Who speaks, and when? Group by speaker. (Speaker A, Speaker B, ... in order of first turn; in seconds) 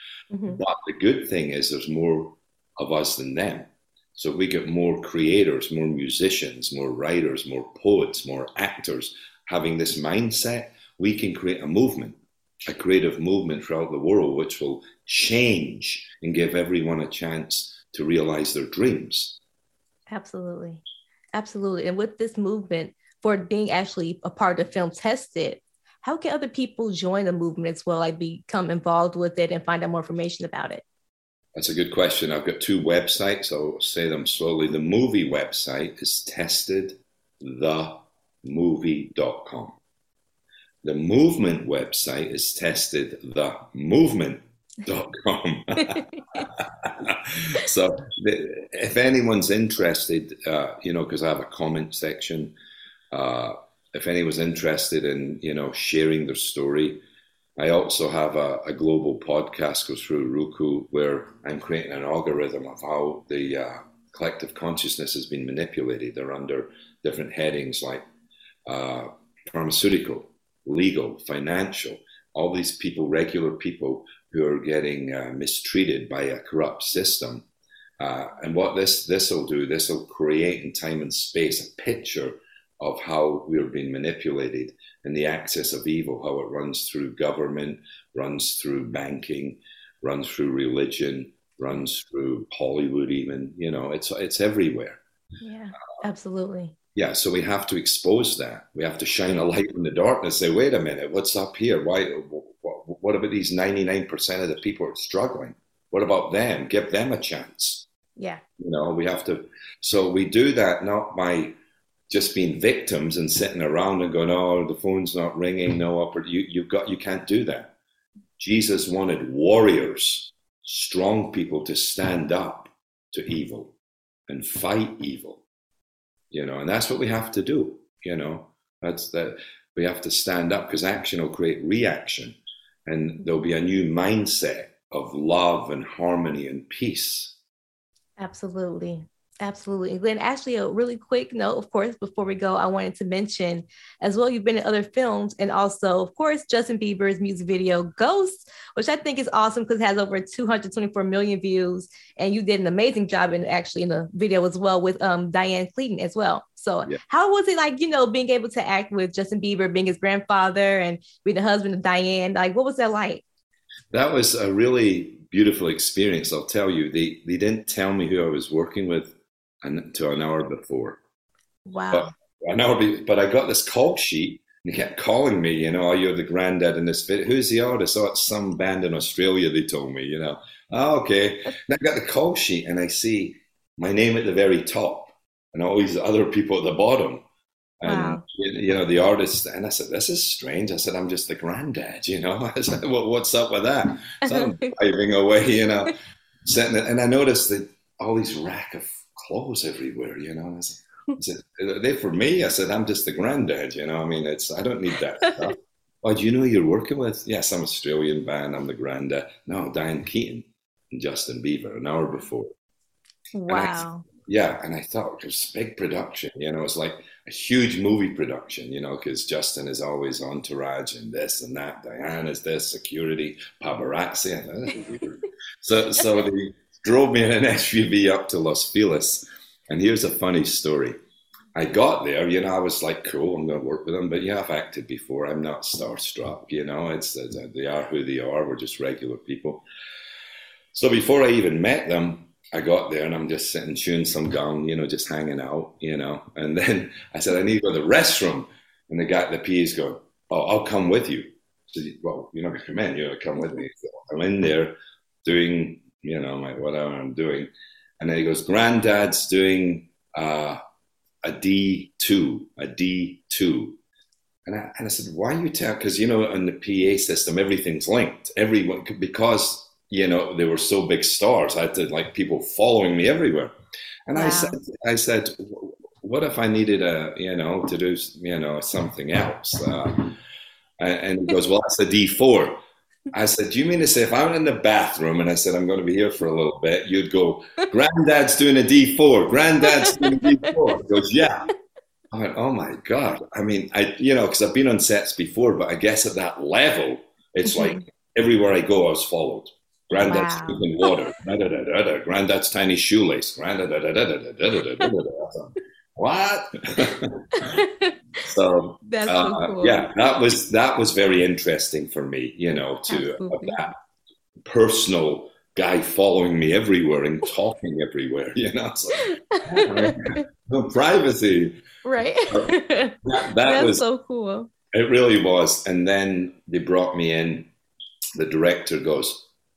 Speaker A: 0.3-0.6, 20.1-20.8, 21.3-30.8, 95.4-96.7, 108.2-108.4, 138.2-163.2, 171.7-172.1, 187.8-188.2, 194.3-194.7, 213.3-214.1, 274.1-274.6, 289.9-290.2, 297.4-297.8, 300.0-301.0, 307.4-307.9, 308.9-309.9, 312.9-313.6, 319.0-320.2, 321.8-324.5
Speaker B: 0.5-19.4, 31.6-39.8, 40.8-52.5, 53.1-57.0, 57.6-68.0, 68.7-77.5, 78.0-95.0, 96.9-107.8, 108.6-111.5, 112.1-117.7, 118.4-123.7, 124.3-125.4, 126.3-137.3, 163.9-171.0, 171.9-187.2, 187.8-195.9, 196.4-212.5, 213.5-231.0, 231.5-239.6, 240.7-260.6, 261.2-263.8, 264.4-273.5, 274.1-280.2, 280.8-282.6, 283.1-291.5, 292.1-307.5, 308.2-313.7, 314.4-321.6, 323.0-323.8, 324.7-327.5, 328.1-329.3